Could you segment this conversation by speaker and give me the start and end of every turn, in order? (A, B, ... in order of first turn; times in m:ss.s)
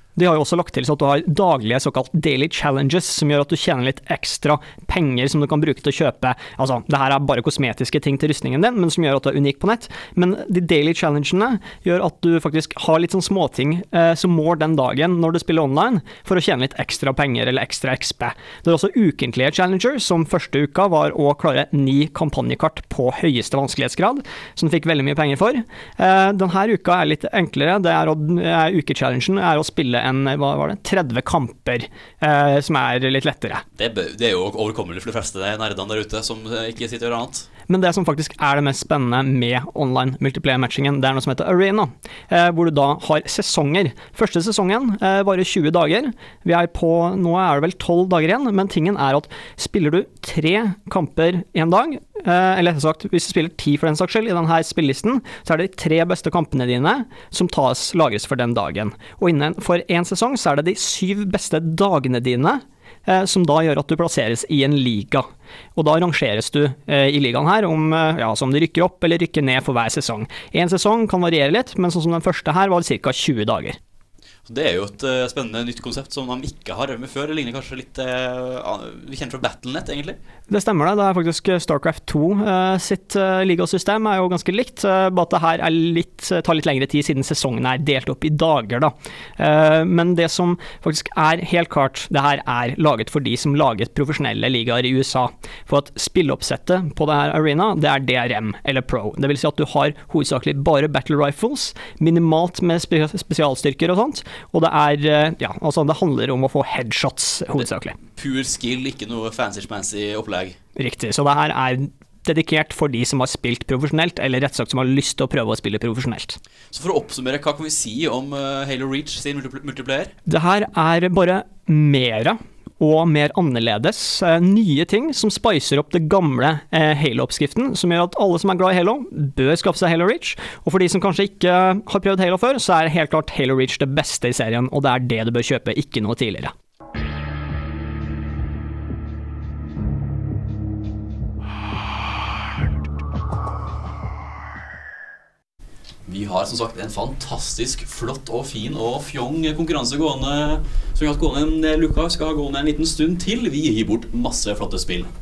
0:00.2-0:33.6 A
0:33.8-0:37.5 B
0:37.7-1:13.8 A
1:14.5-1:20.2 B
1:20.5-1:48.0 A
1:48.2-1:50.6 B
1:50.8-1:56.4 A
1:56.7-2:00.1 B
2:00.3-2:16.5 A
2:26.1-2:35.1 B